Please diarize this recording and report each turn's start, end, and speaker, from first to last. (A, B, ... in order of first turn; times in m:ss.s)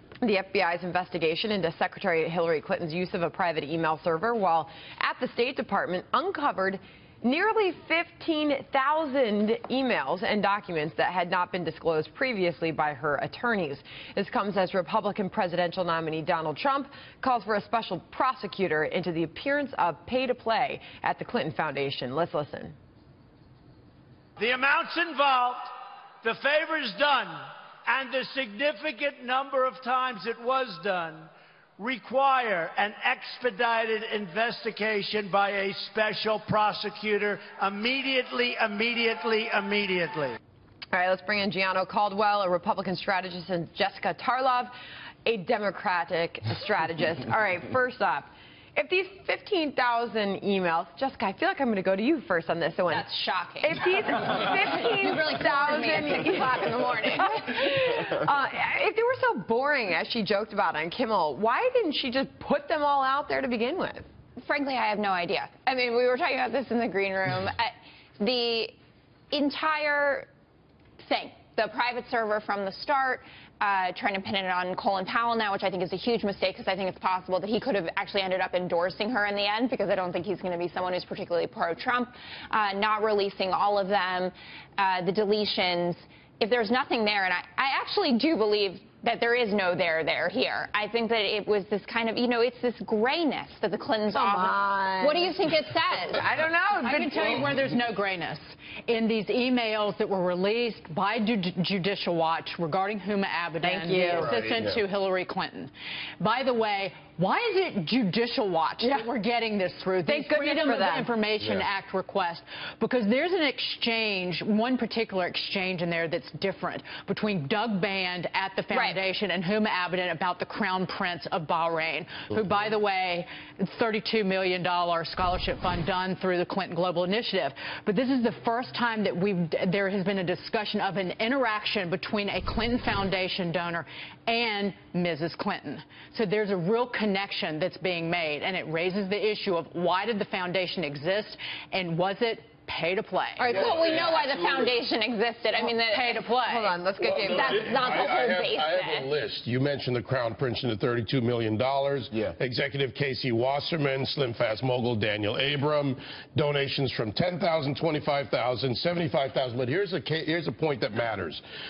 0:00.2-0:22.8 A
0:24.4-0:25.7 B
0:26.2-0:40.4 B
0:40.9-0:44.7 A
0:45.2-0:53.1 A
0:52.9-0:57.6 C
0:53.6-1:04.1 A
1:04.4-1:08.7 C
1:09.3-1:10.3 C
1:11.0-1:36.3 C
1:34.1-1:35.3 A
1:36.2-1:37.4 A
1:36.7-2:23.6 D
1:43.6-1:44.4 A
1:48.8-1:49.1 A
1:50.1-1:51.1 A
2:23.4-2:26.2 C
2:23.6-2:24.6 E
2:25.6-2:26.8 D
2:26.4-2:27.9 A
2:27.0-2:41.4 E
2:27.2-2:29.1 C